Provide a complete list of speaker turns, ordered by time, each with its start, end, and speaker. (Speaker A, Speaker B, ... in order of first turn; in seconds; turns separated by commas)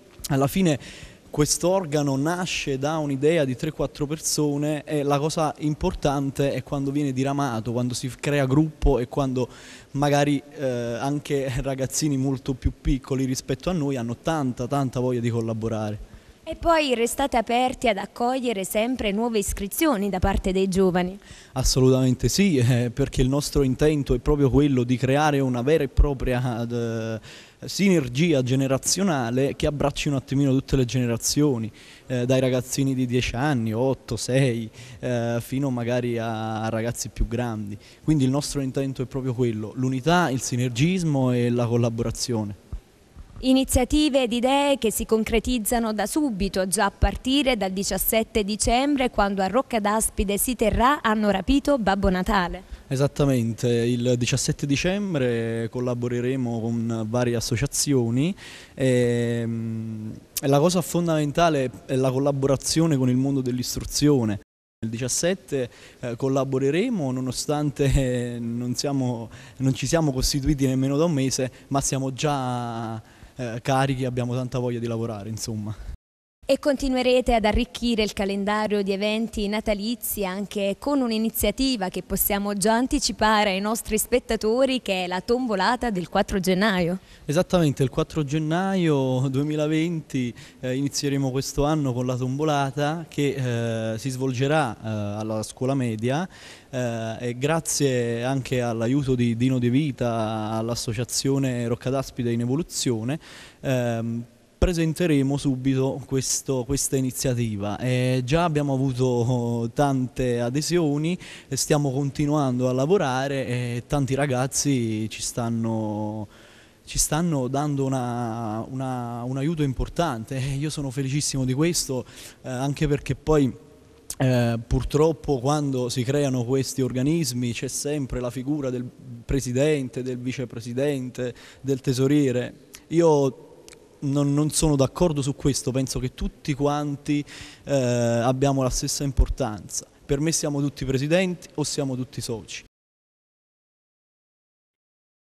Speaker A: 0.3-16.0, Speaker B: 16.5-21.2, Speaker A: 21.6-42.6, Speaker B: 43.4-52.6, Speaker A: 52.9-75.8, Speaker B: 76.5-87.0, Speaker A: 87.3-116.3, Speaker A: 116.9-123.6, Speaker A: 124.2-142.7